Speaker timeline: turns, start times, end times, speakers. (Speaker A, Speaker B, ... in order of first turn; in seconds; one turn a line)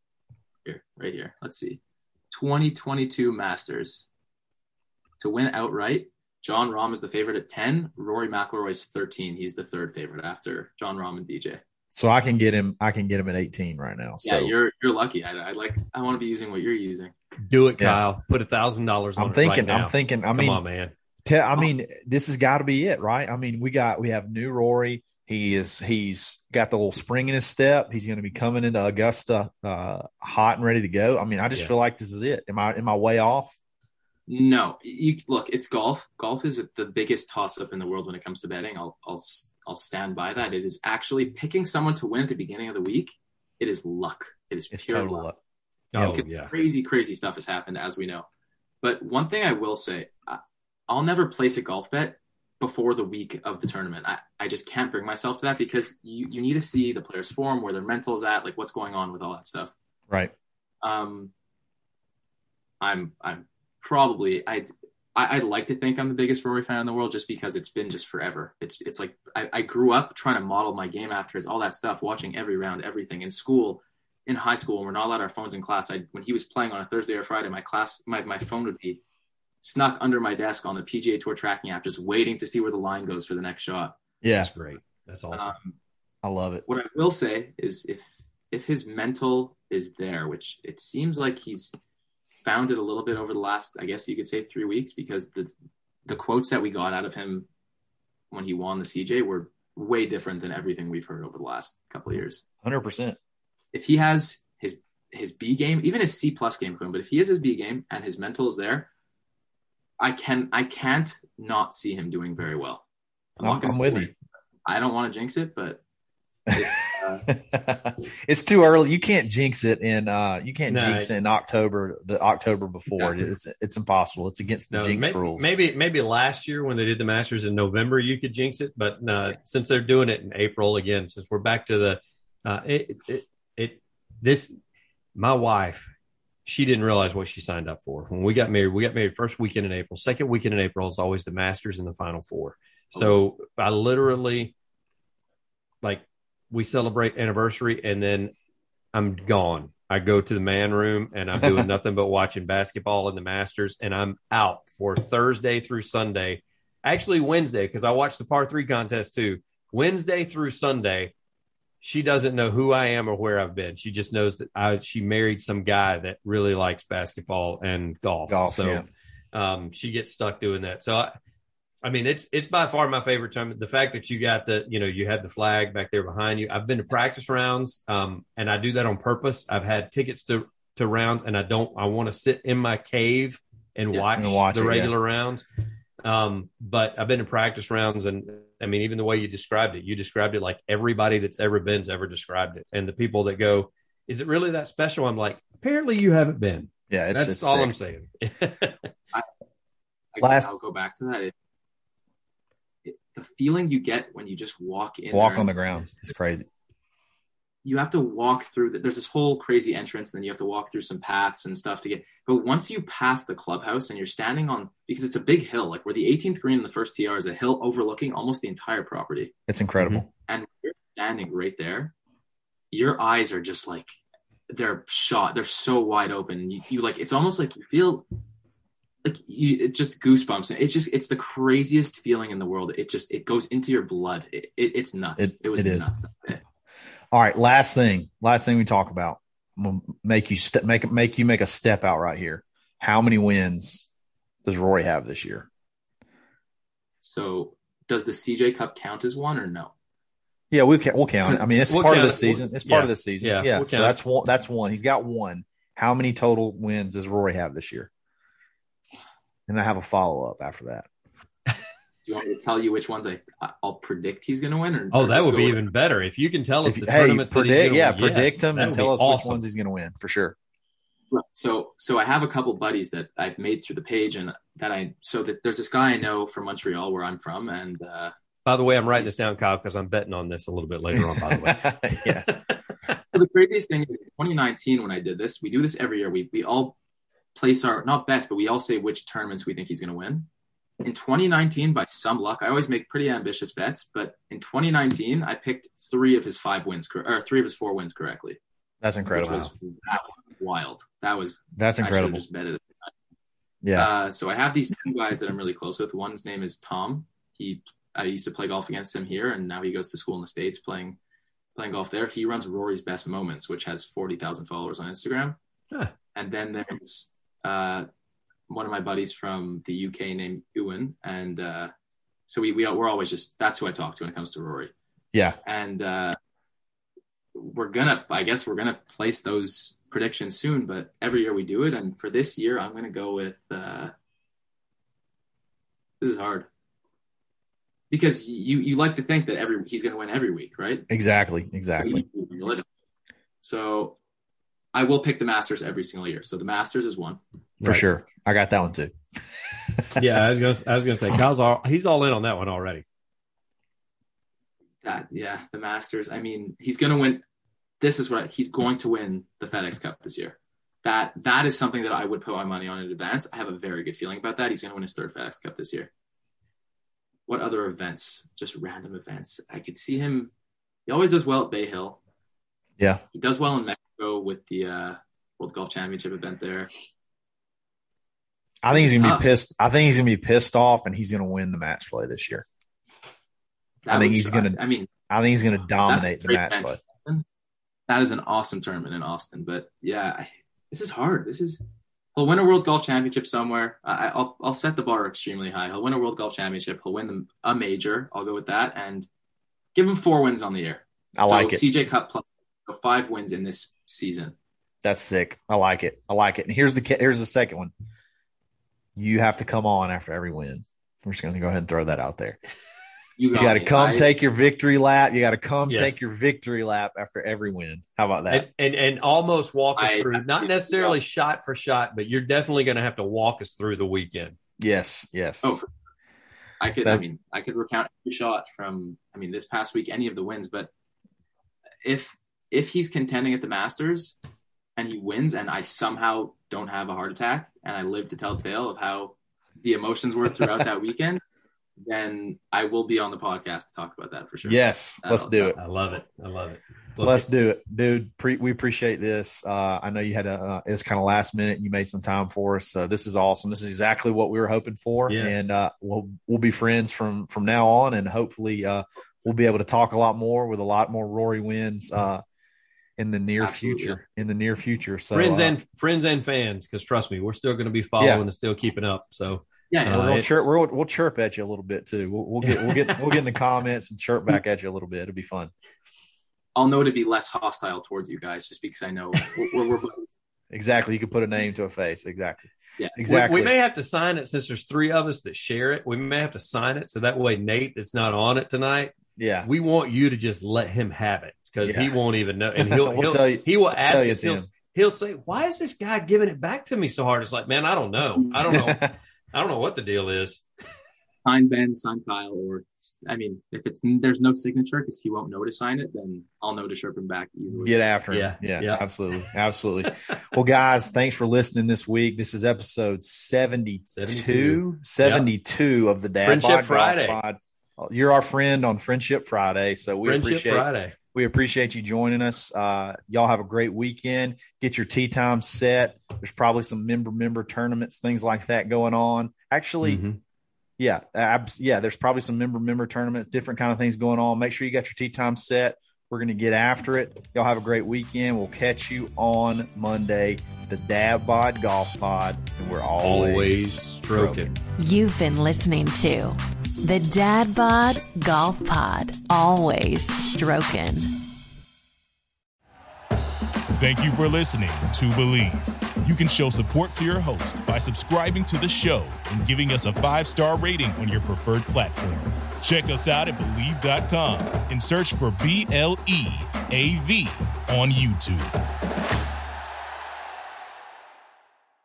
Speaker A: 0.7-4.0
Speaker A: 5.2-11.6
Speaker B: 11.9-14.5
Speaker A: 14.2-17.1
Speaker C: 17.4-20.9
Speaker B: 19.2-20.6
Speaker B: 21.2-33.5
Speaker C: 31.5-31.8
Speaker A: 34.3-45.3
Speaker B: 44.7-45.4
Speaker C: 45.9-46.5
Speaker A: 45.9-48.2
Speaker A: 48.8-59.7
Speaker A: 60.8-61.3
Speaker A: 62.8-79.0
Speaker A: 79.6-84.0
Speaker B: 84.2-84.5
Speaker C: 84.4-85.5
Speaker A: 85.3-85.8
Speaker B: 86.2-86.6
Speaker A: 86.7-91.7
Speaker A: 92.4-95.5
Speaker A: 96.1-97.5
Speaker A: 98.3-102.4
Speaker B: 102.6-103.2
Speaker A: 103.7-108.9
Speaker A: 110.0-112.8
Speaker A: 113.4-114.1
Speaker B: 113.4-114.1
Speaker A: 114.7-115.8
Speaker B: 116.5-125.5
Speaker A: 116.5-117.2
Speaker C: 120.7-121.1
Speaker C: 124.7-134.5
Speaker C: 135.2-135.9
Speaker C: 136.4-144.5
Speaker A: 142.9-143.2
Speaker C: 145.8-148.3
Speaker C: 148.9-161.1
Speaker B: 151.4-151.7
Speaker C: 161.8-171.1
Speaker B: 168.3-168.9
Speaker C: 171.8-185.4
Speaker B: 184.1-184.9
Speaker C: 186.0-198.8
Speaker B: 196.9-197.7
Speaker A: 200.1-201.3
Speaker B: 200.2-200.5
Speaker A: 202.8-205.5
Speaker B: 205.1-206.5
Speaker A: 207.6-219.3
Speaker B: 219.5-220.1
Speaker A: 220.3-221.9
Speaker A: 222.7-223.9
Speaker A: 224.5-228.1
Speaker A: 229.0-236.4
Speaker B: 235.2-235.9
Speaker B: 237.1-243.9
Speaker B: 244.4-245.5
Speaker A: 247.0-249.7
Speaker B: 250.5-257.9
Speaker C: 251.7-253.9
Speaker B: 259.5-260.9
Speaker A: 262.0-265.6
Speaker C: 264.9-269.4
Speaker B: 266.6-270.3
Speaker A: 271.1-278.1
Speaker C: 278.4-282.4
Speaker A: 278.9-279.2
Speaker B: 281.0-282.3
Speaker A: 283.1-286.8
Speaker A: 287.3-290.3
Speaker A: 290.8-298.4
Speaker B: 298.8-299.5
Speaker A: 299.1-302.9
Speaker B: 301.6-302.2
Speaker B: 303.6-303.9
Speaker A: 303.8-311.0
Speaker A: 311.6-315.4
Speaker A: 316.1-317.9
Speaker A: 318.5-321.7
Speaker A: 322.3-324.7
Speaker A: 325.4-326.2
Speaker A: 327.3-333.9
Speaker A: 336.0-336.5
Speaker A: 337.9-340.9
Speaker B: 340.9-342.0
Speaker A: 341.8-342.6
Speaker A: 343.4-344.0
Speaker A: 344.7-347.2
Speaker B: 347.6-348.9
Speaker C: 349.9-352.8
Speaker A: 354.8-357.2
Speaker A: 357.8-365.9
Speaker A: 367.3-370.3
Speaker A: 370.9-372.0
Speaker A: 373.1-376.7
Speaker B: 378.6-382.4
Speaker A: 378.7-379.3
Speaker A: 383.8-384.9
Speaker B: 383.9-384.6
Speaker B: 385.1-386.8
Speaker A: 385.9-387.2
Speaker A: 387.9-391.6
Speaker A: 392.1-399.1
Speaker A: 399.7-404.3
Speaker B: 401.1-401.6
Speaker B: 404.8-407.7
Speaker B: 408.9-412.4
Speaker A: 413.2-414.1
Speaker B: 413.3-418.5
Speaker C: 415.7-416.0
Speaker C: 418.3-424.4
Speaker A: 419.8-421.0
Speaker B: 424.6-425.6
Speaker A: 425.4-425.7
Speaker A: 426.6-430.7
Speaker A: 431.8-434.2
Speaker A: 434.8-441.2
Speaker A: 441.8-445.6
Speaker B: 444.4-445.6
Speaker C: 445.6-447.2
Speaker B: 447.0-462.2
Speaker C: 455.1-455.5
Speaker B: 463.0-465.6
Speaker A: 463.4-464.0
Speaker C: 465.1-470.3
Speaker B: 468.0-468.2
Speaker A: 469.7-470.2
Speaker B: 469.9-475.5
Speaker A: 476.6-480.1
Speaker B: 480.5-483.5
Speaker C: 483.1-500.4
Speaker B: 489.2-489.5
Speaker B: 491.6-491.9
Speaker B: 492.6-494.5
Speaker B: 498.3-498.9
Speaker A: 501.2-507.7
Speaker B: 507.5-530.0
Speaker C: 508.1-509.2
Speaker C: 513.9-515.3
Speaker C: 516.2-517.2
Speaker C: 520.0-520.9
Speaker C: 529.8-530.2
Speaker B: 530.8-544.5
Speaker C: 543.0-544.5
Speaker D: 544.8-551.1
Speaker E: 553.8-568.5